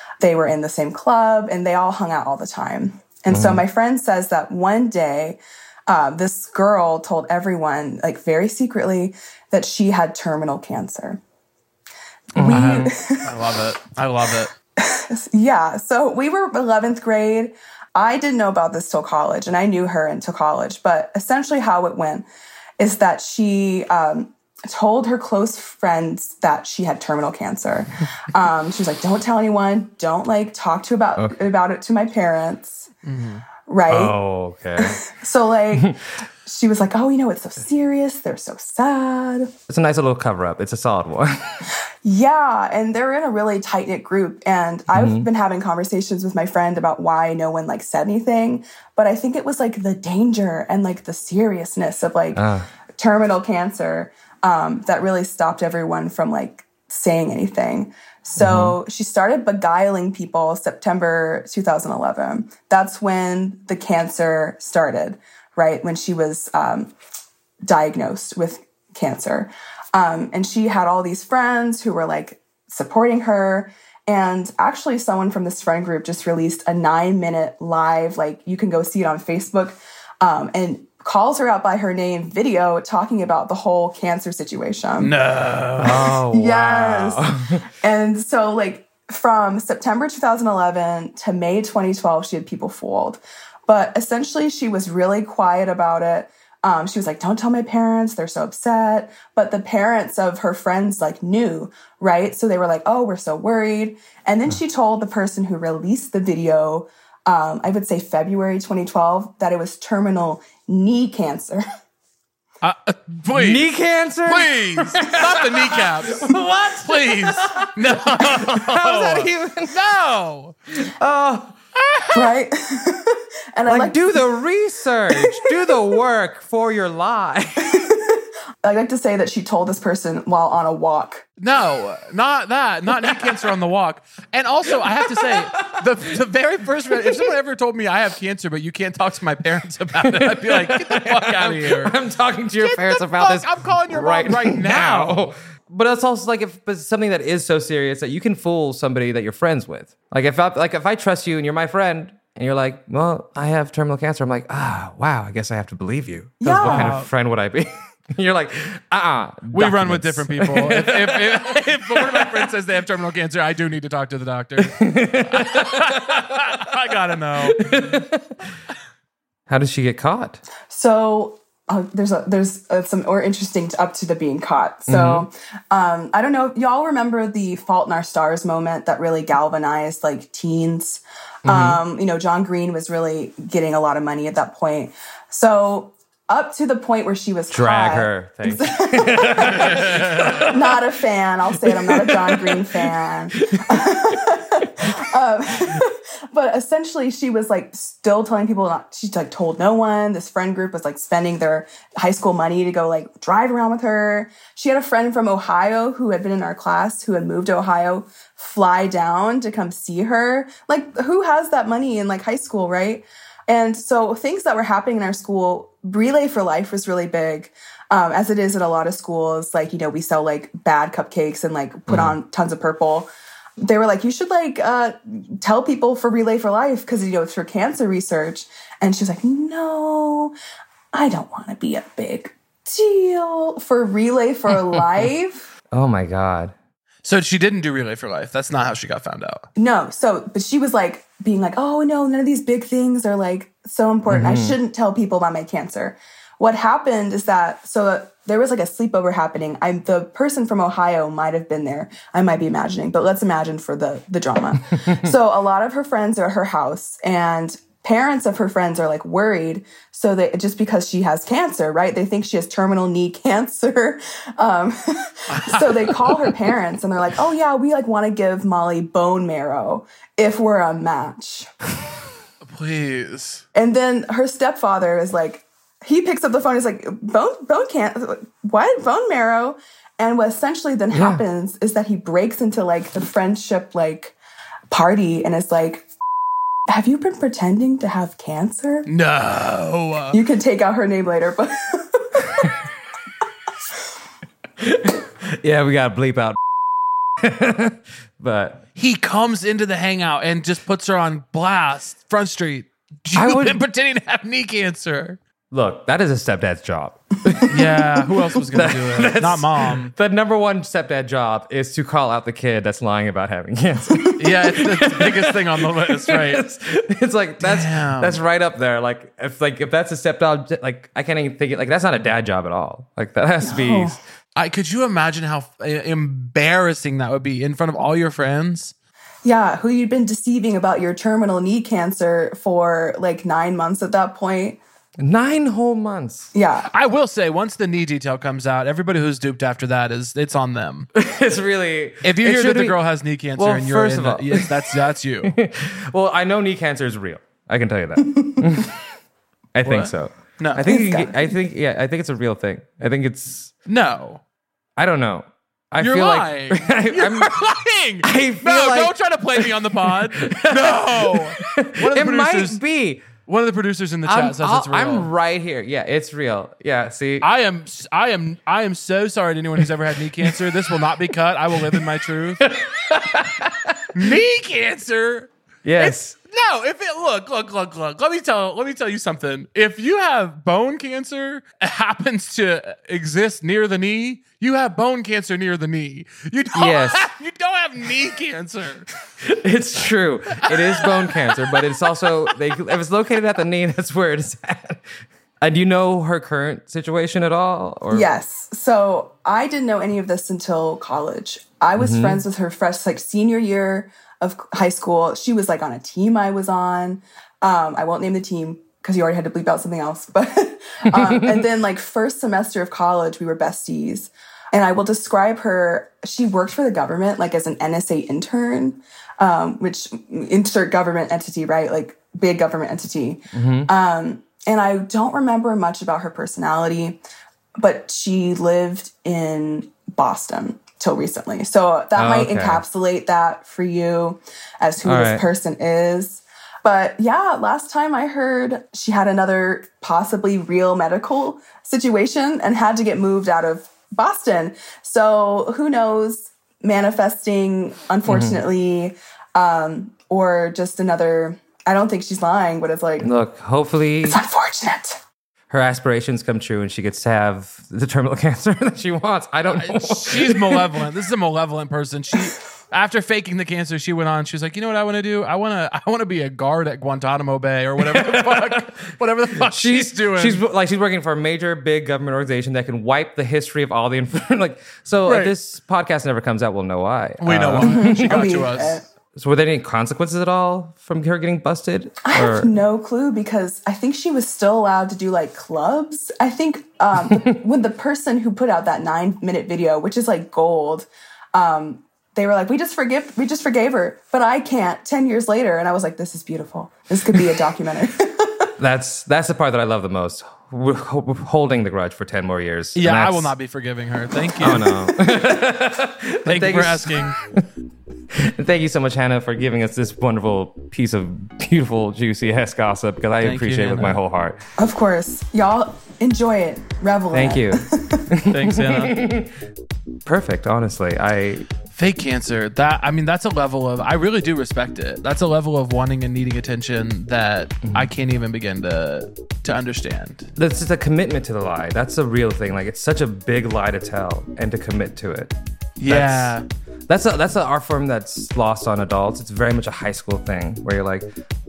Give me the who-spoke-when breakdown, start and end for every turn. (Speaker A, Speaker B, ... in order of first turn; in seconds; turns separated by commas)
Speaker A: 0.2-11.2, Speaker B: 3.3-3.6, Speaker B: 12.3-12.9, Speaker A: 12.3-13.3, Speaker C: 12.4-14.5, Speaker A: 14.8-22.2, Speaker A: 22.8-32.9, Speaker C: 33.0-33.4, Speaker A: 33.6-34.2, Speaker B: 33.9-35.0, Speaker A: 34.8-39.5, Speaker B: 39.7-41.6, Speaker A: 42.0-52.4, Speaker B: 44.9-45.3, Speaker B: 52.3-52.7, Speaker A: 53.0-66.9, Speaker B: 58.4-58.8, Speaker A: 67.6-85.1, Speaker C: 85.0-86.1, Speaker B: 85.8-87.6, Speaker A: 86.2-111.6, Speaker C: 112.6-113.7, Speaker B: 113.3-119.8, Speaker C: 114.2-120.5, Speaker B: 120.8-121.5, Speaker C: 121.8-122.2, Speaker A: 122.1-124.2, Speaker B: 123.7-127.8, Speaker A: 125.2-125.4, Speaker A: 127.6-131.2, Speaker C: 131.4-141.9, Speaker B: 135.0-135.7, Speaker B: 140.0-162.5, Speaker C: 142.6-145.2, Speaker A: 156.4-157.0, Speaker C: 156.7-157.1, Speaker C: 159.5-167.6, Speaker B: 164.6-166.2, Speaker B: 167.4-168.4, Speaker B: 169.5-170.4, Speaker A: 170.7-189.8, Speaker B: 174.9-175.3, Speaker B: 181.4-181.8, Speaker B: 187.5-190.8, Speaker C: 189.5-190.5, Speaker A: 190.5-223.1, Speaker B: 191.6-192.8, Speaker B: 193.4-193.9, Speaker B: 221.9-222.2, Speaker A: 223.6-230.3, Speaker A: 230.9-235.5, Speaker B: 235.7-236.5, Speaker C: 237.0-239.4, Speaker A: 239.6-271.5, Speaker B: 244.1-244.6, Speaker C: 265.3-266.2, Speaker C: 272.4-273.4, Speaker A: 273.5-284.1, Speaker B: 280.9-281.2, Speaker A: 284.7-285.9, Speaker A: 286.7-288.9, Speaker C: 288.9-290.2, Speaker A: 290.1-292.5, Speaker B: 294.6-296.4, Speaker B: 297.2-298.6, Speaker C: 298.8-305.2, Speaker B: 303.1-303.6, Speaker B: 305.5-324.0, Speaker C: 307.5-309.9, Speaker C: 314.2-316.4, Speaker C: 317.4-318.2, Speaker A: 323.4-323.9, Speaker C: 324.3-328.7, Speaker A: 329.2-334.6, Speaker B: 335.0-336.3, Speaker A: 336.3-336.7, Speaker C: 336.7-340.9, Speaker B: 340.9-342.8, Speaker C: 342.0-345.3, Speaker B: 343.3-348.8, Speaker B: 349.5-353.5, Speaker C: 349.6-350.7, Speaker A: 350.6-351.3, Speaker C: 353.7-354.2, Speaker B: 354.8-357.5, Speaker C: 355.8-362.6, Speaker B: 358.0-363.0, Speaker C: 363.3-365.1, Speaker B: 364.1-367.3, Speaker C: 367.2-372.4, Speaker B: 372.4-373.8, Speaker C: 373.9-388.9, Speaker B: 375.6-376.1, Speaker B: 386.5-387.1, Speaker B: 389.2-398.1, Speaker C: 390.5-390.9, Speaker A: 397.9-427.0, Speaker B: 401.8-402.2, Speaker B: 410.9-411.4, Speaker B: 423.3-423.7, Speaker A: 427.6-453.1, Speaker B: 431.9-432.6, Speaker B: 434.8-435.2, Speaker B: 448.1-448.4, Speaker B: 453.0-454.2, Speaker A: 454.0-455.0, Speaker B: 455.5-460.6, Speaker C: 459.6-470.4, Speaker B: 467.8-468.7, Speaker B: 469.4-478.3, Speaker C: 475.1-475.3, Speaker C: 477.2-478.8, Speaker A: 477.6-478.9, Speaker B: 479.1-482.5, Speaker A: 482.0-498.5, Speaker B: 498.6-503.3, Speaker C: 502.8-504.7, Speaker B: 504.4-507.4, Speaker C: 506.2-507.2, Speaker B: 508.1-514.4, Speaker C: 513.2-514.0, Speaker A: 514.6-518.0, Speaker B: 517.1-519.3, Speaker C: 518.3-519.0, Speaker B: 520.0-521.5, Speaker C: 521.7-530.3, Speaker B: 530.4-535.3, Speaker C: 535.8-536.5, Speaker B: 535.9-536.4, Speaker B: 536.9-541.1